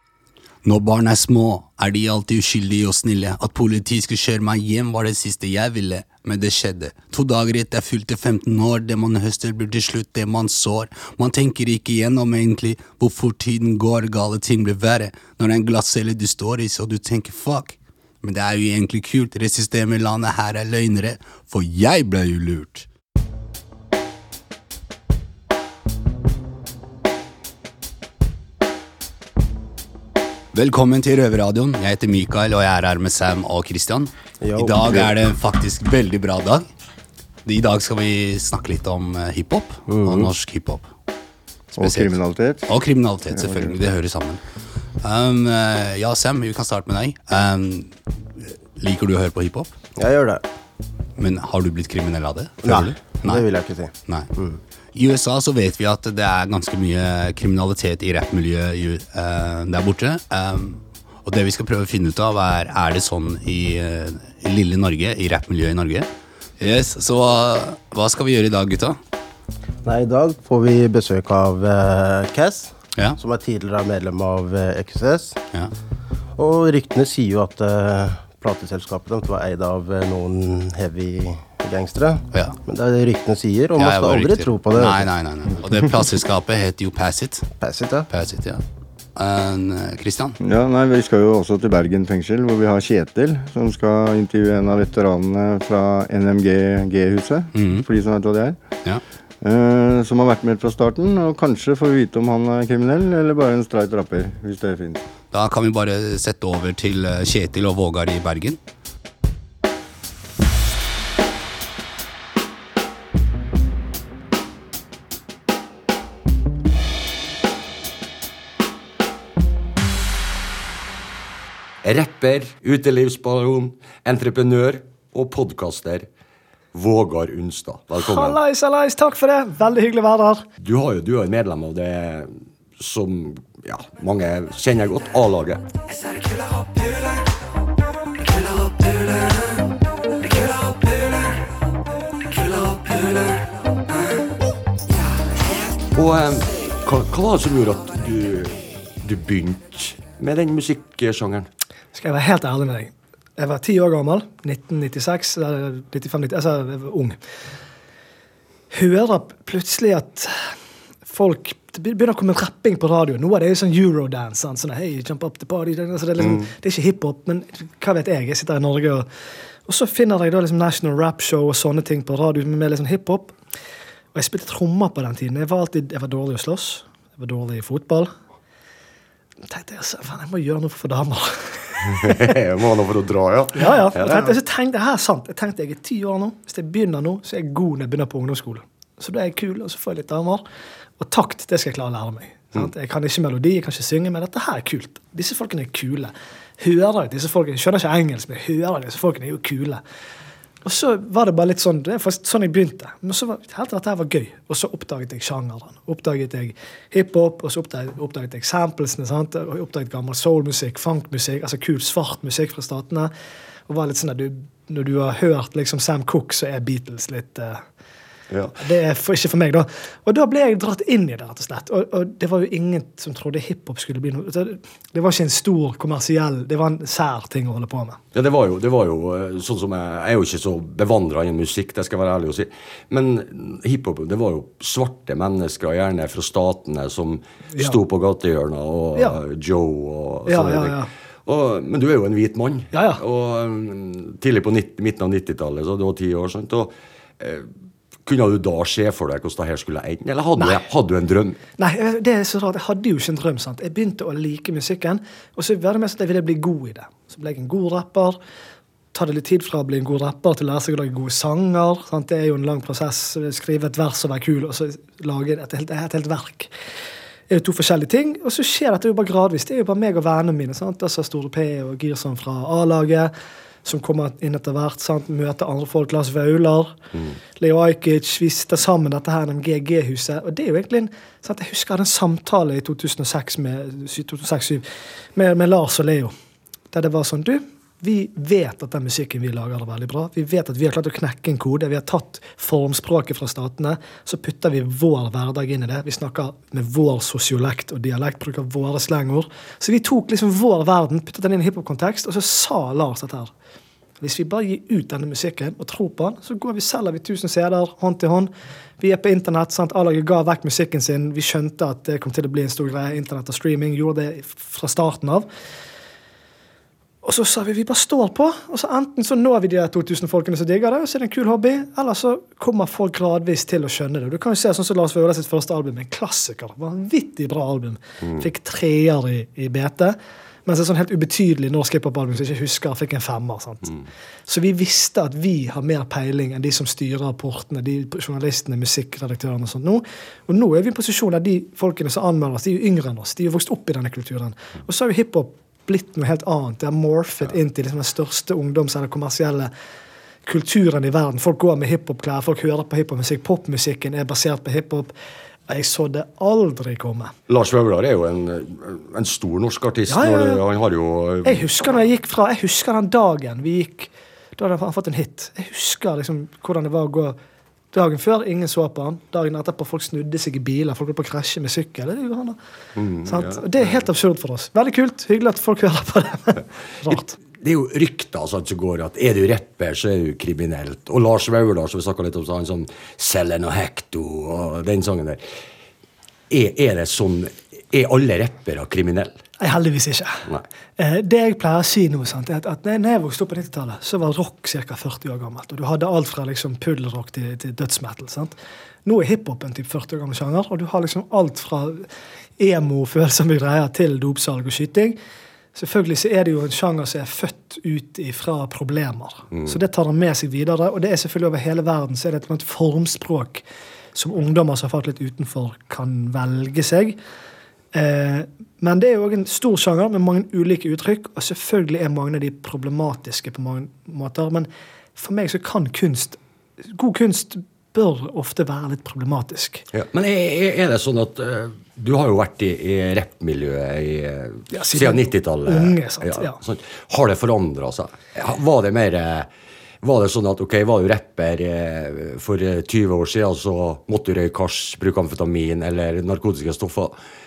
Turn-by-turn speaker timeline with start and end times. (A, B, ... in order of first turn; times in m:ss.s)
0:00.6-0:22.9 A
0:30.5-0:36.7 A
0:34.4-0:35.2 B
0:37.4-0:40.9 A
0:39.9-0:40.3 B
0:41.8-0:44.4 A
0:41.8-0:42.7 C
0:43.4-0:43.7 C
0:45.0-0:48.0 A
0:48.8-0:49.7 A
0:50.0-0:50.4 B
0:51.2-0:54.3 A
0:52.6-0:54.6 B
0:54.9-1:06.1 A
1:06.6-1:09.0 A
1:09.8-1:15.4 B
1:12.9-1:13.2 A
1:16.4-1:25.1 B
1:22.3-1:22.6 A
1:23.8-1:27.5 A
1:27.6-1:28.1 B
1:28.1-1:28.6 A
1:29.2-1:30.4 A
1:30.4-1:38.6 C
1:37.5-1:37.8 A
1:39.4-1:45.0 C
1:45.3-1:48.6 A
2:01.8-2:06.1 D
2:06.7-2:08.4 D
2:08.0-2:10.4 E
2:10.6-2:15.7 D
2:25.9-2:31.5 D
2:31.9-2:37.2 E
2:38.7-2:40.5 E
2:41.1-2:49.1 E
2:46.2-2:46.5 D
2:49.7-2:53.4 E
2:54.1-2:58.1 E
2:59.5-3:02.2 E
3:02.0-3:04.4 D
3:03.6-3:10.4 E
3:11.0-3:19.8 E
3:20.6-3:33.1 E
3:33.7-3:37.6 E
3:38.3-3:38.6 D
3:38.6-3:48.0 E
3:48.1-4:07.5 D
3:57.5-3:57.8 E
3:59.0-3:59.2 E
4:00.3-4:00.9 E
4:02.7-4:03.0 E
4:08.0-4:11.4 D
4:10.4-4:10.6 E
4:11.6-4:18.2 E
4:18.9-4:26.5 E
4:27.3-4:33.1 E
4:33.6-4:36.8 E
4:37.4-4:46.1 E
4:46.7-5:03.3 E
5:04.0-5:15.3 E
5:17.0-5:33.8 E
5:34.3-5:49.5 E
5:50.3-5:54.9 E
5:55.5-5:57.1 E
5:57.3-6:01.4 D
5:59.9-6:00.4 E
6:01.2-6:07.2 E
6:07.7-6:12.4 E
6:12.8-6:13.8 D
6:13.1-6:17.2 E
6:17.4-6:25.2 D
6:26.3-6:29.2 D
6:29.4-6:30.3 E
6:30.8-6:41.9 E
6:42.4-6:45.0 E
6:45.6-6:53.4 E
6:49.3-6:49.6 D
6:54.0-6:57.0 E
6:57.7-7:06.2 E
7:06.7-7:09.7 E
7:09.7-7:19.3 D
7:14.5-7:16.4 E
7:19.8-7:27.0 D